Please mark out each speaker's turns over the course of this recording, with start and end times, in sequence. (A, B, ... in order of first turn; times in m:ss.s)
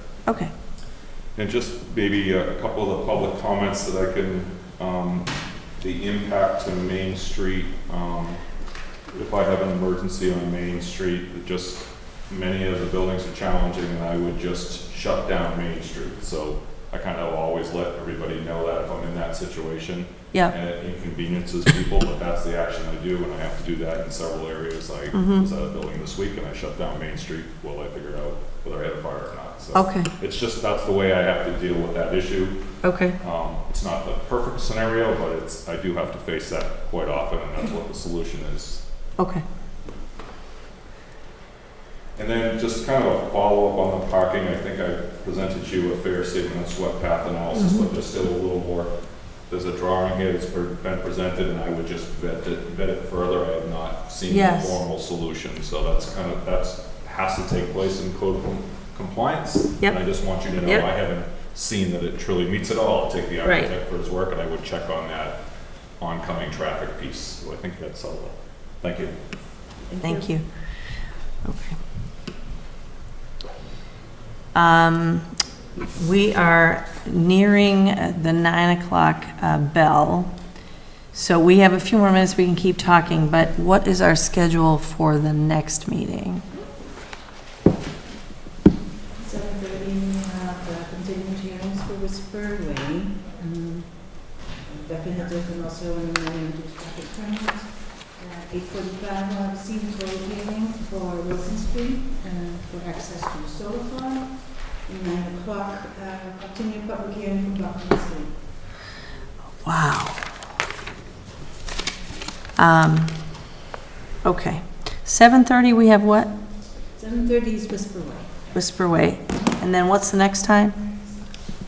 0:00.2-0:00.5 A
0:01.3-0:08.6 B
0:09.1-0:38.9 B
0:25.1-0:25.5 A
0:29.7-0:30.1 A
0:32.8-0:33.2 A
0:39.2-0:39.4 A
0:42.2-1:09.2 B
0:47.5-0:47.9 A
0:54.3-0:54.8 A
0:59.8-1:00.9 A
1:03.4-1:03.7 A
1:10.0-1:11.8 A
1:14.5-1:15.4 A
1:15.9-1:20.6 A
1:21.1-1:26.5 A
1:29.2-1:48.4 C
1:49.6-1:50.3 A
1:52.6-1:53.6 A
1:54.2-1:56.4 A
1:57.0-1:58.5 C
1:58.5-2:01.1 A